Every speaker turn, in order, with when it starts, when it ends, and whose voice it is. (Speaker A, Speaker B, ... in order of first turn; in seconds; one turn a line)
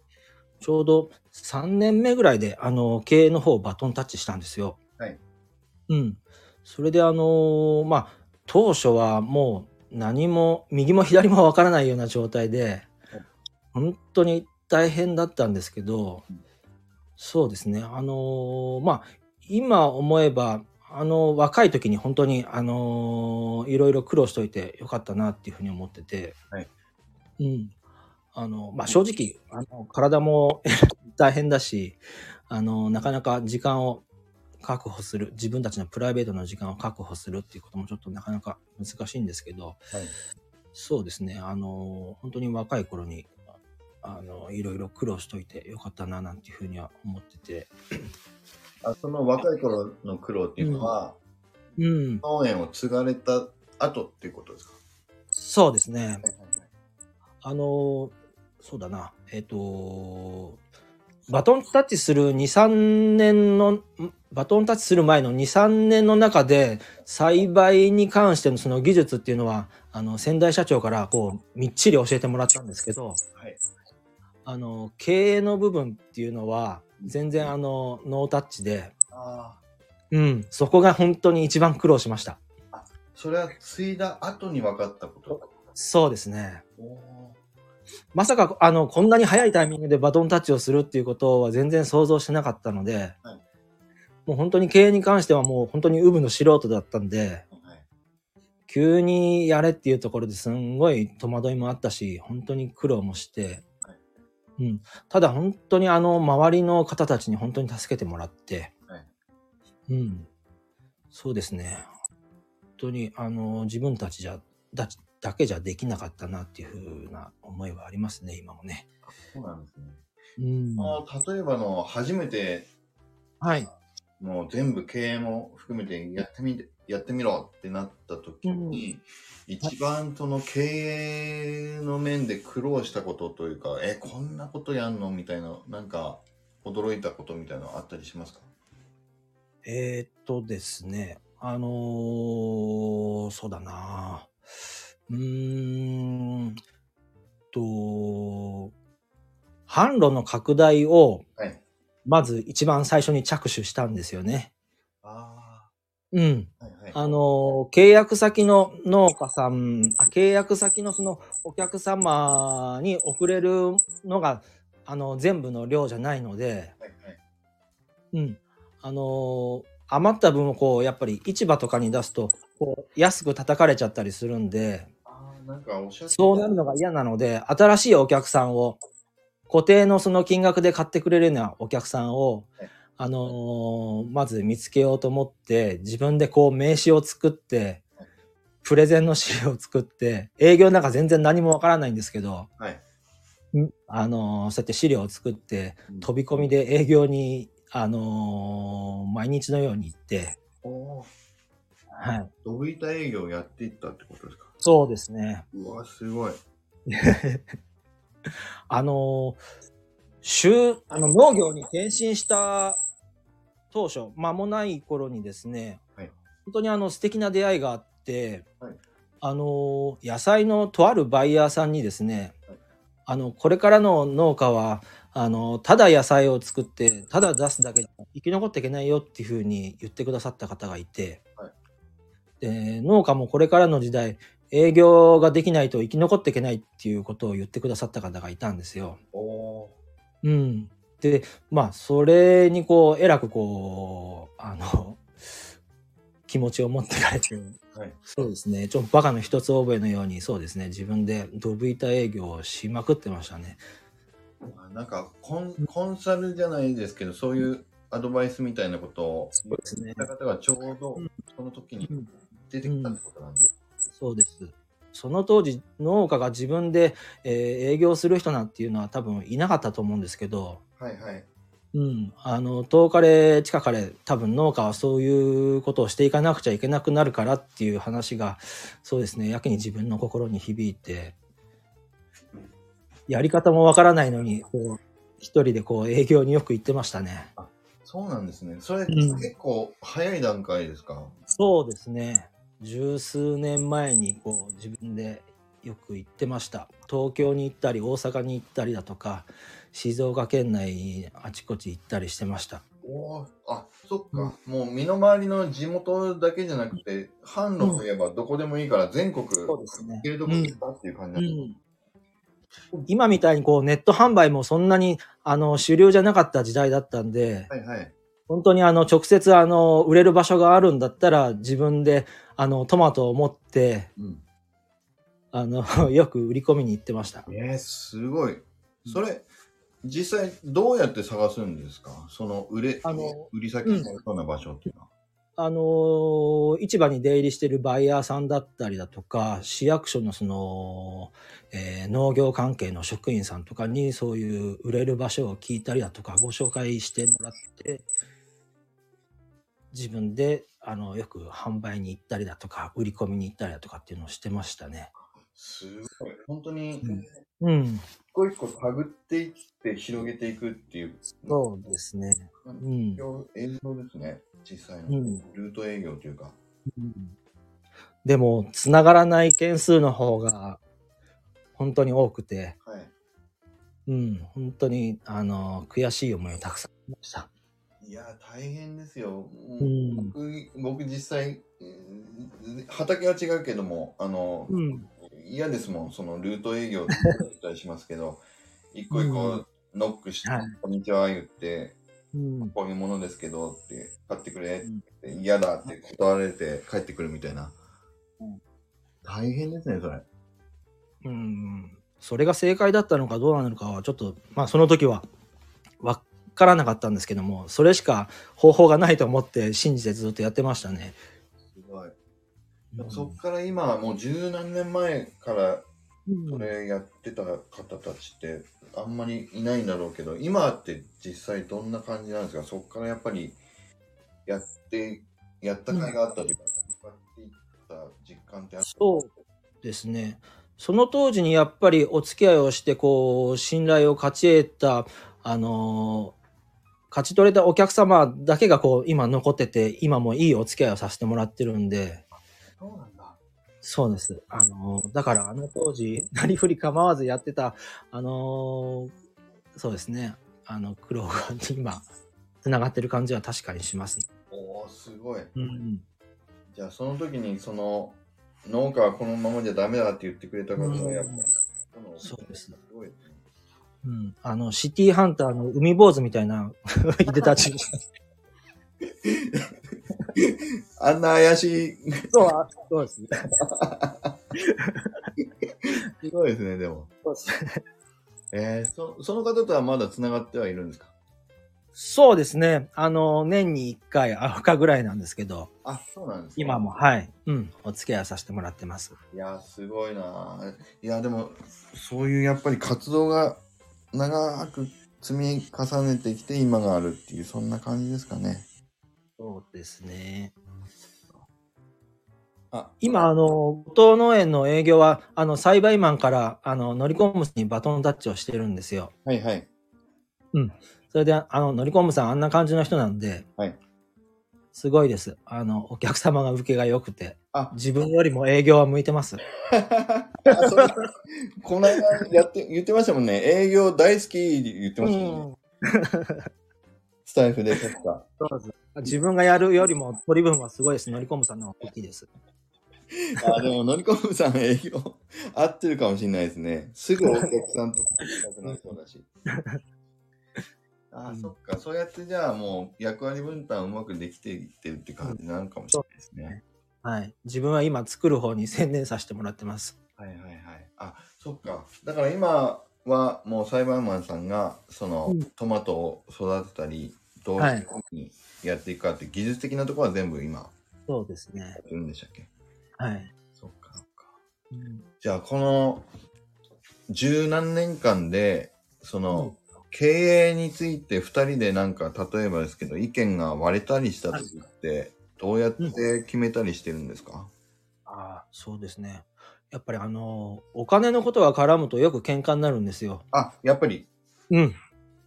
Speaker A: 0.6-4.8
Speaker A: 5.9-12.9
Speaker A: 13.7-16.2
Speaker A: 17.2-26.4
Speaker A: 27.4-27.7
Speaker A: 28.3-34.0
Speaker A: 34.6-39.8
Speaker A: 40.7-43.3
Speaker A: 44.0-48.0
Speaker B: 48.8-51.2
Speaker A: 50.6-50.9
Speaker A: 51.8-52.2
Speaker B: 52.2-54.8
Speaker A: 55.3-56.2
Speaker B: 56.2-56.7
Speaker A: 57.4-60.6
Speaker A: 61.3-73.2
Speaker A: 74.4-78.9
Speaker B: 77.0-77.5
Speaker B: 79.1-79.6
Speaker A: 80.1-82.4
Speaker B: 82.7-85.5
Speaker A: 85.3-86.6
Speaker B: 86.8-87.4
Speaker A: 88.1-93.2
Speaker A: 94.2-97.4
Speaker B: 97.5-97.8
Speaker A: 98.7-103.6
Speaker A: 104.6-108.7
Speaker A: 109.9-110.3
Speaker A: 111.1-111.9
Speaker A: 112.8-118.9
Speaker B: 119.3-120.0
Speaker A: 120.4-121.0
Speaker B: 120.8-122.7
Speaker A: 123.4-123.7
Speaker B: 124.2-138.5
Speaker A: 128.4-128.8
Speaker A: 139.6-144.3
Speaker A: 145.1-146.6
Speaker A: 147.5-148.7
Speaker A: 149.7-151.2
Speaker A: 152.1-154.5
Speaker B: 155.0-155.7
Speaker A: 156.1-166.7
Speaker B: 156.6-157.1
Speaker B: 166.8-167.2
Speaker A: 168.1-174.9
Speaker B: 175.1-176.5
Speaker A: 176.1-178.8
Speaker A: 179.5-187.8
Speaker A: 188.6-192.5
Speaker A: 193.5-200.4
Speaker B: 200.6-201.1
Speaker A: 202.0-202.3
Speaker B: 202.4-204.5
Speaker A: 204.6-205.4
Speaker B: 205.5-206.4
Speaker A: 206.9-207.5
Speaker A: 208.7-209.4
Speaker A: 210.2-212.8
Speaker A: 213.7-215.8
Speaker A: 216.4-218.4
Speaker A: 219.2-222.3
Speaker A: 223.1-231.2
Speaker A: 232.4-239.0
Speaker B: 239.1-239.7
Speaker A: 240.2-245.1
Speaker A: 246.3-253.6
Speaker B: 247.7-248.0
Speaker B: 254.5-263.5
Speaker A: 259.4-260.1
Speaker A: 261.8-262.1
Speaker A: 262.6-263.0
Speaker A: 263.9-270.6
Speaker B: 270.8-271.2
Speaker A: 271.7-281.1
Speaker A: 283.1-287.3
Speaker B: 287.4-291.1
Speaker A: 288.9-289.3
Speaker A: 291.3-302.6
Speaker B: 302.8-311.5
Speaker A: 309.5-310.6
Speaker A: 311.1-311.6
Speaker A: 312.8-317.5
Speaker B: 317.5-317.9
Speaker A: 318.3-323.9
Speaker B: 324.0-324.2
Speaker A: 325.3-327.3
Speaker B: 327.3-329.3
Speaker B: 329.8-334.9
Speaker A: 332.8-333.9
Speaker A: 335.4-347.9
Speaker A: 349.7-354.9
Speaker B: 355.3-357.2
Speaker A: 356.8-357.8
Speaker B: 358.1-361.4
Speaker A: 361.2-363.0
Speaker B: 362.4-366.4
Speaker A: 364.9-365.2
Speaker A: 366.7-367.1
Speaker A: 368.0-370.6
Speaker A: 371.6-372.6
Speaker B: 372.6-372.9
Speaker A: 373.9-377.3
Speaker B: 377.8-391.8
Speaker A: 379.6-380.1
Speaker A: 384.5-384.9
Speaker A: 388.9-389.4
Speaker A: 390.2-390.6
Speaker A: 392.1-392.5
Speaker B: 392.4-397.6
Speaker B: 399.0-400.0
Speaker A: 401.0-405.1
Speaker A: 405.8-411.0
Speaker B: 411.4-411.9
Speaker A: 412.7-413.2
Speaker B: 412.8-415.7
Speaker A: 416.1-416.5
Speaker B: 416.3-423.4
Speaker B: 424.2-428.8
Speaker A: 428.6-436.1
Speaker A: 436.9-442.1
Speaker B: 442.6-443.2
Speaker A: 443.6-448.9
Speaker A: 449.5-451.9
Speaker A: 452.4-454.1
Speaker B: 454.3-455.3
Speaker A: 455.3-455.8
Speaker B: 456.5-463.2
Speaker A: 460.6-461.2
Speaker A: 462.0-462.5
Speaker A: 463.8-467.8
Speaker B: 469.0-469.6
Speaker B: 470.1-472.1
Speaker A: 472.1-473.3
Speaker B: 473.4-474.2
Speaker A: 474.4-475.1
Speaker B: 475.6-476.9
Speaker A: 477.0-477.6
Speaker B: 478.3-480.9
Speaker A: 481.8-485.5
Speaker B: 485.6-486.7
Speaker A: 486.4-489.0
Speaker B: 489.1-498.5
Speaker A: 499.2-500.3
Speaker B: 502.5-503.1
Speaker A: 502.8-508.9
Speaker B: 509.0-509.5
Speaker A: 510.3-513.3
Speaker A: 514.5-519.2
Speaker B: 519.5-520.8
Speaker A: 520.3-520.8
Speaker B: 521.4-525.3
Speaker A: 524.8-526.3
Speaker B: 527.0-528.1
Speaker A: 528.2-532.1
Speaker B: 533.1-539.1
Speaker A: 538.4-538.7
Speaker A: 539.3-539.6
Speaker B: 540.9-546.3
Speaker A: 545.7-549.7
Speaker B: 550.0-560.5
Speaker A: 557.4-557.6
Speaker A: 560.9-561.6
Speaker B: 561.6-562.3
Speaker A: 562.8-563.1
Speaker B: 563.4-564.1
Speaker A: 564.5-564.8
Speaker B: 565.0-565.9
Speaker B: 566.9-577.3
Speaker A: 569.1-569.4
Speaker A: 577.9-583.0
Speaker B: 583.1-583.9
Speaker A: 584.3-584.5